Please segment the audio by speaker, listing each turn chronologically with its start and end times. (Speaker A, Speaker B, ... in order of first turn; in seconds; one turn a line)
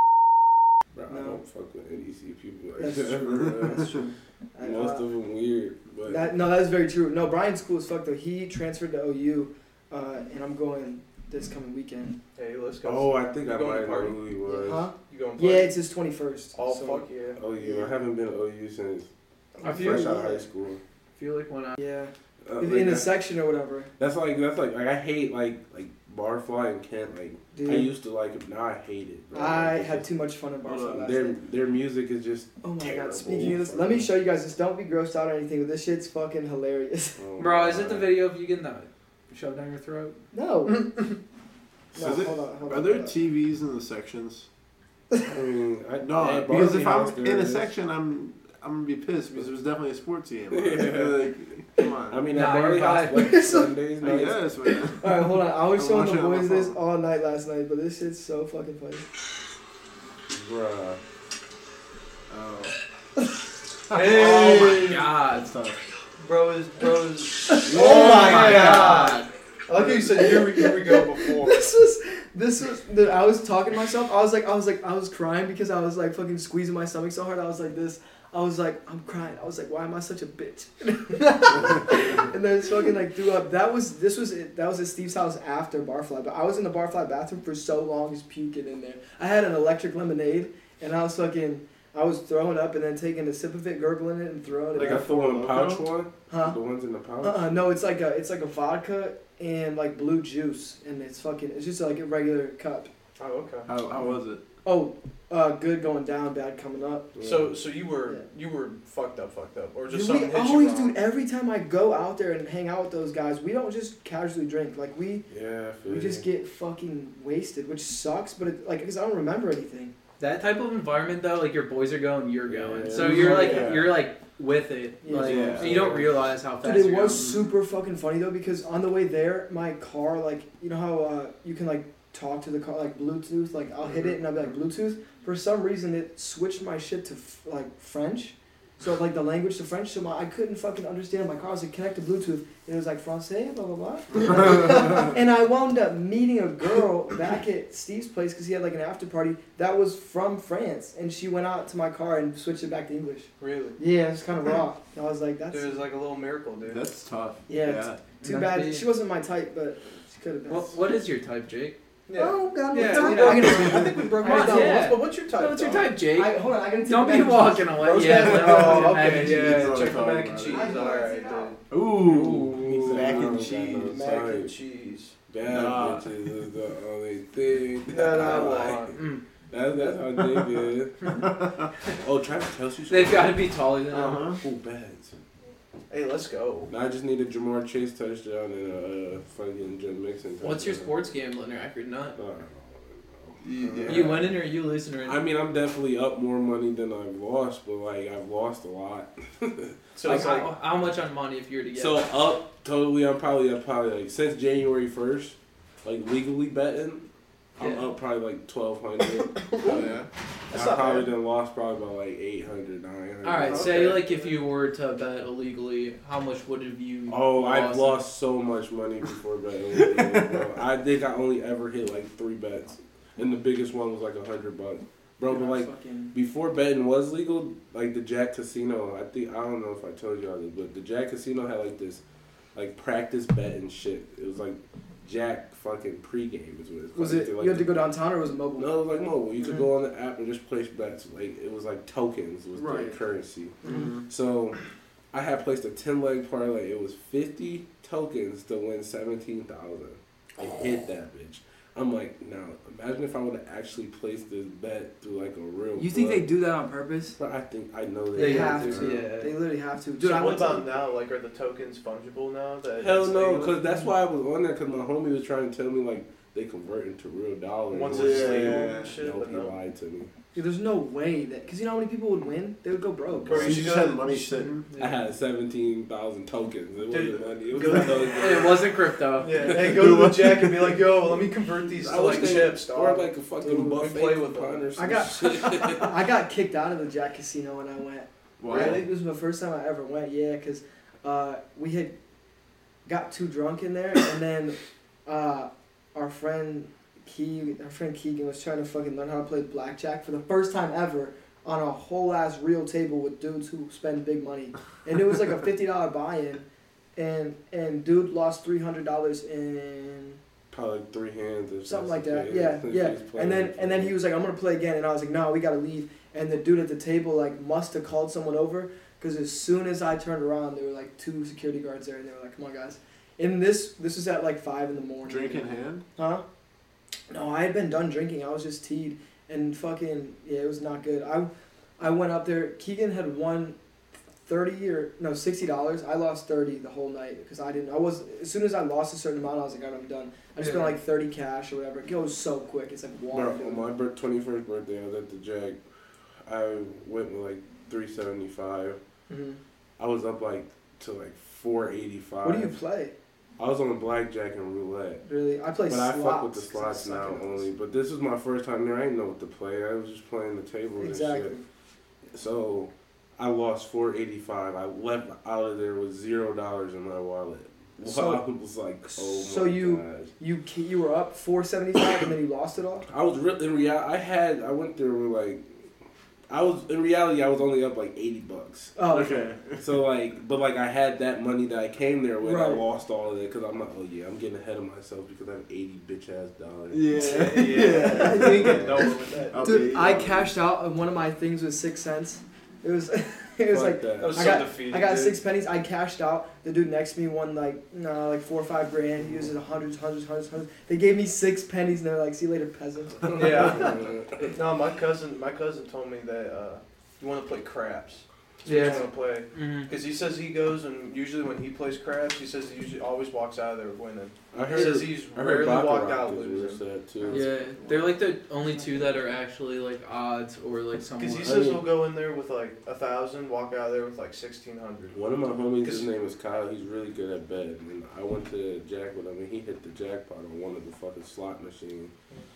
Speaker A: 0.9-4.0
Speaker B: 1.1-1.4
Speaker B: 2.8-5.1
Speaker A: 4.6-6.3
Speaker B: 6.1-12.2
Speaker C: 12.4-14.2
Speaker A: 12.8-14.9
Speaker B: 14.5-17.0
Speaker C: 15.1-15.7
Speaker C: 16.5-17.4
Speaker A: 17.4-19.1
Speaker B: 17.6-17.9
Speaker B: 19.6-20.5
Speaker D: 19.6-20.2
Speaker A: 19.6-20.8
Speaker D: 21.1-21.8
Speaker B: 21.8-23.9
Speaker A: 22.4-23.1
Speaker A: 24.0-30.1
Speaker B: 27.5-27.9
Speaker B: 29.3-31.4
Speaker E: 30.6-31.0
Speaker A: 30.9-34.1
Speaker B: 32.6-37.2
Speaker A: 37.2-38.1
Speaker D: 37.4-40.2
Speaker B: 40.3-41.0
Speaker B: 41.9-43.2
Speaker E: 42.0-44.5
Speaker A: 45.3-47.7
Speaker E: 46.0-52.3
Speaker A: 50.5-51.2
Speaker A: 52.1-54.5
Speaker D: 52.3-53.4
Speaker B: 53.1-53.8
Speaker E: 54.0-56.8
Speaker B: 54.6-59.1
Speaker A: 60.3-61.0
Speaker E: 62.3-62.8
Speaker C: 63.9-65.1
Speaker E: 63.9-65.8
Speaker D: 63.9-65.6
Speaker C: 66.2-71.6
Speaker B: 67.5-69.2
Speaker D: 67.7-69.3
Speaker E: 67.7-68.7
Speaker B: 70.1-95.1
Speaker E: 94.7-95.9
Speaker A: 94.8-97.5
Speaker B: 96.3-96.6
Speaker B: 97.2-102.9
Speaker C: 103.2-103.7
Speaker E: 103.7-104.4
Speaker B: 104.6-107.1
Speaker A: 107.2-107.5
Speaker C: 107.2-111.0
Speaker B: 109.9-115.3
Speaker A: 115.3-116.3
Speaker B: 115.9-119.9
Speaker D: 120.2-127.3
Speaker A: 122.5-123.7
Speaker B: 123.0-123.7
Speaker E: 123.0-124.0
Speaker B: 125.0-125.6
Speaker E: 125.2-125.9
Speaker A: 125.5-126.2
Speaker B: 126.6-155.8
Speaker E: 127.1-127.5
Speaker C: 153.4-153.8
Speaker C: 155.5-156.9
Speaker E: 156.6-158.0
Speaker B: 157.5-160.7
Speaker D: 158.2-158.9
Speaker D: 160.5-161.8
Speaker C: 162.1-166.0
Speaker B: 162.2-164.9
Speaker D: 162.7-169.8
Speaker B: 166.1-167.9
Speaker C: 167.8-171.6
Speaker E: 168.0-170.8
Speaker B: 170.5-171.6
Speaker E: 171.7-174.0
Speaker D: 172.1-172.4
Speaker C: 172.2-175.2
Speaker A: 172.3-174.5
Speaker B: 173.9-174.3
Speaker A: 175.3-179.0
Speaker E: 175.5-176.1
Speaker C: 177.9-179.0
Speaker B: 178.1-178.8
Speaker D: 178.9-179.2
Speaker A: 179.5-181.2
Speaker B: 179.8-180.0
Speaker A: 181.9-183.4
Speaker D: 182.9-184.4
Speaker E: 183.9-184.4
Speaker A: 184.4-185.2
Speaker C: 185.9-186.7
Speaker A: 186.7-190.9
Speaker D: 190.4-192.2
Speaker A: 192.2-194.3
Speaker E: 193.4-194.2
Speaker D: 193.9-195.2
Speaker A: 195.0-200.2
Speaker C: 199.9-200.5
Speaker D: 200.0-202.1
Speaker A: 201.8-207.1
Speaker A: 207.6-214.0
Speaker D: 207.6-207.9
Speaker E: 209.6-210.1
Speaker C: 210.5-211.1
Speaker D: 213.2-218.0
Speaker C: 213.5-214.1
Speaker A: 217.1-232.0
Speaker E: 219.9-220.4
Speaker B: 225.3-226.1
Speaker A: 232.6-237.8
Speaker B: 236.9-238.8
Speaker A: 238.6-244.6
Speaker B: 239.4-239.7
Speaker B: 242.6-243.0
Speaker B: 243.6-243.9
Speaker E: 243.7-244.1
Speaker A: 245.1-256.3
Speaker B: 255.8-257.2
Speaker A: 257.2-259.1
Speaker B: 258.1-260.7
Speaker D: 258.2-259.4
Speaker C: 260.0-263.6
Speaker A: 262.8-270.1
Speaker C: 267.7-269.6
Speaker E: 267.9-269.0
Speaker B: 270.4-273.7
Speaker A: 273.2-273.7
Speaker C: 273.3-274.4
Speaker E: 273.3-274.6
Speaker D: 274.7-275.0
Speaker A: 274.8-278.6
Speaker C: 276.9-278.5
Speaker D: 278.1-279.5
Speaker C: 279.2-284.7
Speaker E: 279.5-280.8
Speaker A: 281.8-285.9
Speaker B: 284.8-291.9
Speaker E: 288.4-288.8
Speaker C: 288.5-288.9
Speaker B: 292.9-306.4
Speaker B: 307.0-310.2
Speaker A: 310.5-313.9
Speaker B: 311.7-326.2
Speaker E: 325.1-325.9
Speaker B: 327.1-333.6
Speaker B: 334.2-343.7
Speaker A: 343.1-345.6
Speaker A: 346.2-348.8
Speaker B: 349.1-349.4
Speaker A: 349.8-352.6
Speaker B: 352.2-352.9
Speaker A: 353.4-355.0
Speaker B: 355.1-357.5
Speaker A: 355.7-361.4
Speaker B: 360.8-361.4
Speaker A: 362.1-370.1
Speaker B: 367.8-368.2
Speaker B: 368.9-372.9
Speaker A: 372.9-375.6
Speaker A: 376.3-378.8
Speaker B: 378.8-379.2
Speaker E: 378.9-379.6
Speaker A: 379.5-388.9
Speaker B: 382.2-382.6
Speaker E: 386.7-390.3
Speaker C: 386.9-389.6
Speaker B: 387.9-388.6
Speaker B: 389.4-403.7
Speaker A: 393.5-394.4
Speaker C: 394.0-395.2
Speaker A: 403.0-404.3
Speaker C: 403.1-416.6
Speaker D: 408.4-409.7
Speaker A: 414.3-417.3
Speaker D: 417.1-421.6
Speaker B: 418.6-418.9
Speaker C: 421.0-425.0
Speaker A: 421.2-421.6
Speaker A: 424.9-431.9
Speaker C: 425.6-425.9